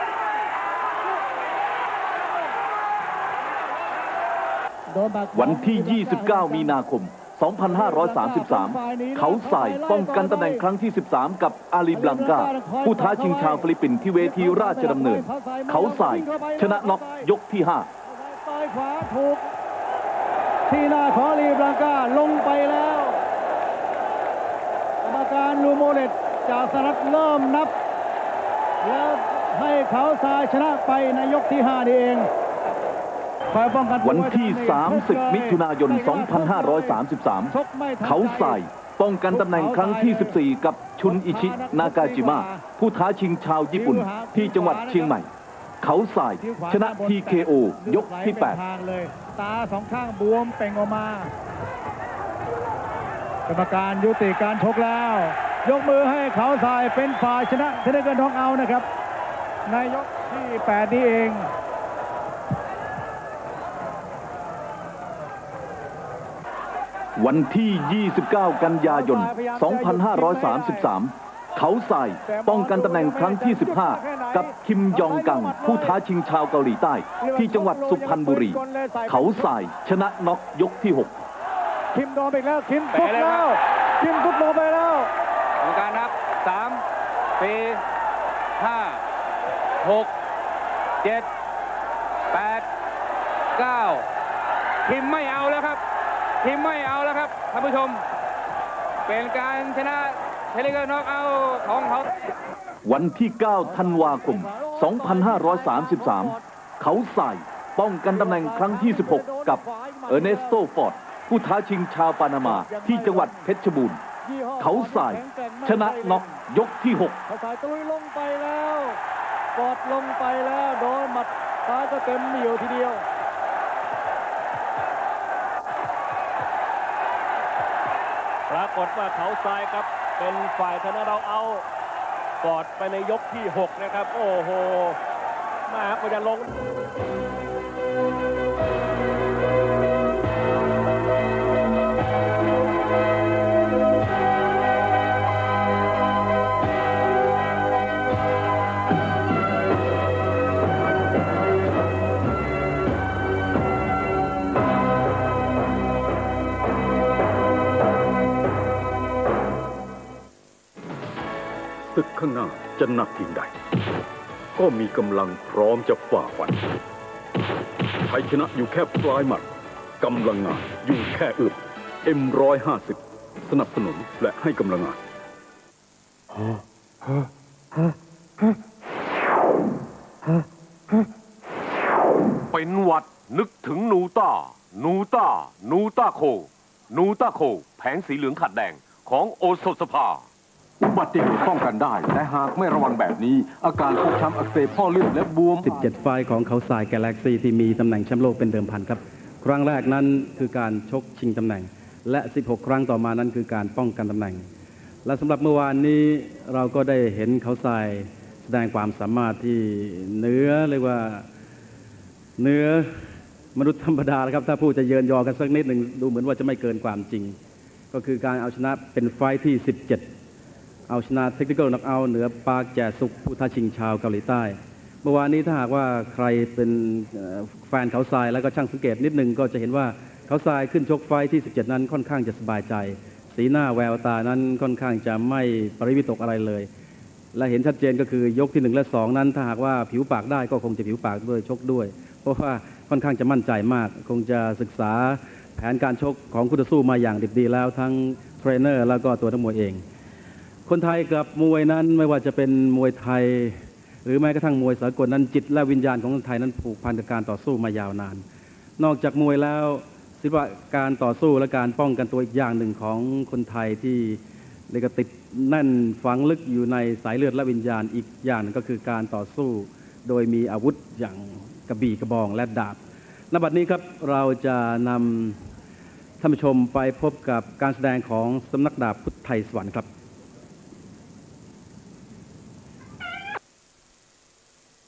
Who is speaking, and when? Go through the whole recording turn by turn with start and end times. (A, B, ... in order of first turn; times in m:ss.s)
0:04.9-0:06.7 A
0:05.3-0:17.9 B
0:07.6-0:10.6 A
0:11.9-0:17.3 A
0:18.1-0:19.5 A
0:20.7-0:23.2 A
0:25.0-0:27.7 A
0:28.8-0:32.3 A
0:33.5-0:37.0 A
0:34.0-0:45.3 B
0:37.5-0:38.6 A
0:39.3-0:40.4 A
0:41.0-0:42.6 A
0:43.7-0:45.2 A
0:45.8-0:48.6 B
0:46.4-0:51.3 A
0:53.5-0:58.8 A
0:59.7-1:01.5 A
1:07.2-1:21.2 B
1:08.8-1:10.9 A
1:12.2-1:16.0 A
1:17.2-1:19.5 A
1:21.9-1:25.1 A
1:23.0-1:23.3 C
1:25.6-1:26.8 C
1:27.4-1:27.8 C
1:28.6-1:29.0 C
1:28.6-1:29.0 D
1:29.8-1:30.1 D
1:32.3-1:32.6 C
1:32.3-1:32.6 D
1:33.6-1:34.0 C
1:33.8-1:34.0 D
1:34.8-1:35.8 D
1:34.9-1:35.7 C
1:36.4-1:38.0 D
1:36.4-1:37.9 C
1:39.1-1:42.1 C
1:39.1-1:40.0 D
1:42.8-1:54.0 B
1:43.6-1:46.4 A
1:48.1-1:50.6 A
1:52.4-1:53.5 A
1:54.2-1:56.4 A
1:54.6-1:57.2 B
1:57.3-1:59.0 A
1:59.5-2:03.0 A
2:08.5-2:11.6 D
2:12.4-2:15.0 D
2:15.7-2:16.5 D
2:41.9-2:43.5 E
2:44.6-2:46.5 E
2:48.1-2:49.4 E
2:50.0-2:55.0 E
3:02.5-3:10.2 F
3:10.8-3:15.7 G
3:15.6-3:24.4 H
3:25.0-3:31.3 H
3:32.4-3:33.0 H
3:33.5-3:37.4 H
3:37.9-3:40.0 H
3:40.9-3:56.7 H
3:57.3-4:09.8 H
4:10.6-4:18.2 H
4:18.8-4:32.8 H
4:33.3-4:35.4 H
4:36.2-4:39.9 H